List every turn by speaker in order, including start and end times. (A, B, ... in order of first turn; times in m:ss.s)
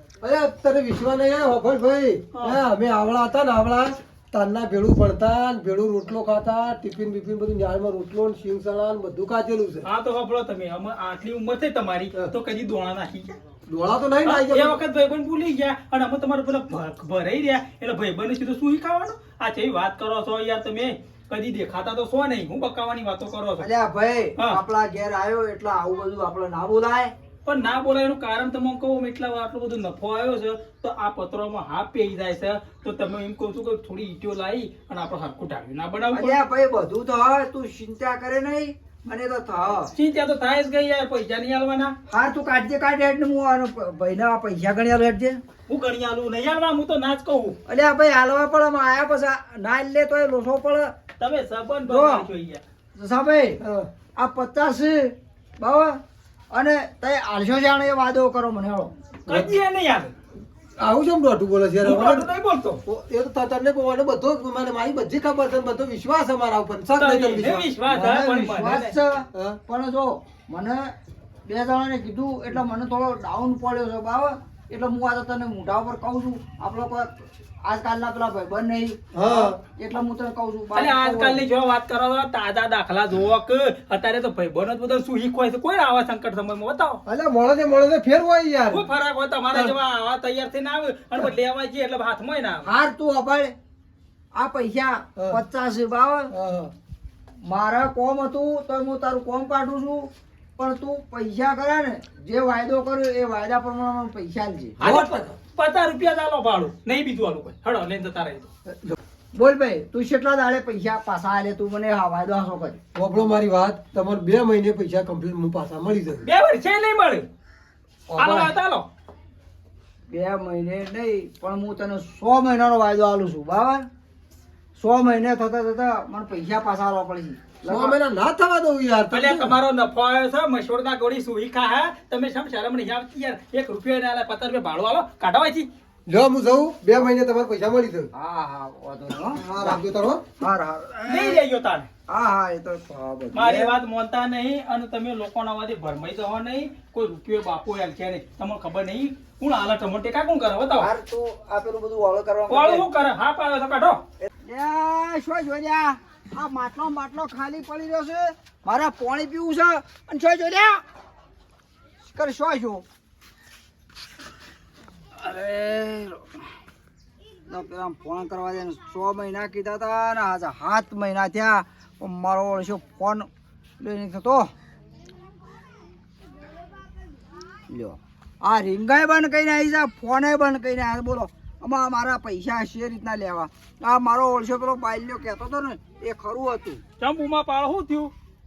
0:00.2-0:09.9 A
0:02.3-0:02.6 B
0:09.8-0:13.4 B
0:13.7-0:14.8 A
0:14.2-0:23.7 B
0:23.6-0:27.1 C
0:27.4-0:36.4 B
0:36.1-0:39.9 C
0:39.9-0:42.0 B
0:42.1-0:45.4 C
0:45.7-0:47.6 B
0:47.6-0:50.9 C
0:51.2-0:52.6 B
0:51.8-0:52.3 C
0:53.0-0:53.6 C
0:53.6-0:53.9 A
0:54.2-0:56.0 C
0:56.5-0:58.9 C
0:59.3-1:00.1 B
0:59.3-0:59.5 A
1:00.8-1:02.3 A
1:01.8-1:02.8 B
1:02.9-1:07.7 A
1:07.0-1:09.0 B
1:07.9-1:10.9 C
1:11.5-1:21.5 C
1:19.1-1:19.6 A
1:20.7-1:27.0 B
1:27.1-1:28.8 A
1:28.7-1:32.7 B
1:32.6-1:33.5 C
1:34.3-1:36.3 C
1:36.3-1:36.7 A
1:37.4-1:45.2 C
1:44.8-1:48.5 B
1:48.7-1:48.9 A
1:49.3-1:52.8 C
1:53.0-1:56.3 A
1:56.2-1:57.3 B
1:58.1-1:58.5 A
1:58.2-1:58.9 B
2:00.1-2:03.9 C
2:04.8-2:08.0 C
2:07.7-2:09.6 A
2:09.1-2:15.7 B
2:16.1-2:18.1 A
2:18.1-2:19.8 C
2:19.4-2:20.2 A
2:20.4-2:21.4 C
2:21.0-2:21.9 B
2:22.1-2:23.8 C
2:23.3-2:30.9 B
2:30.8-2:32.9 C
2:32.5-2:34.0 B
2:34.4-2:40.8 C
2:42.0-2:42.8 C
2:45.2-2:46.2 C
2:47.5-2:53.3 C
2:53.8-2:54.5 C
2:57.7-3:06.8 C
3:07.0-3:08.1 B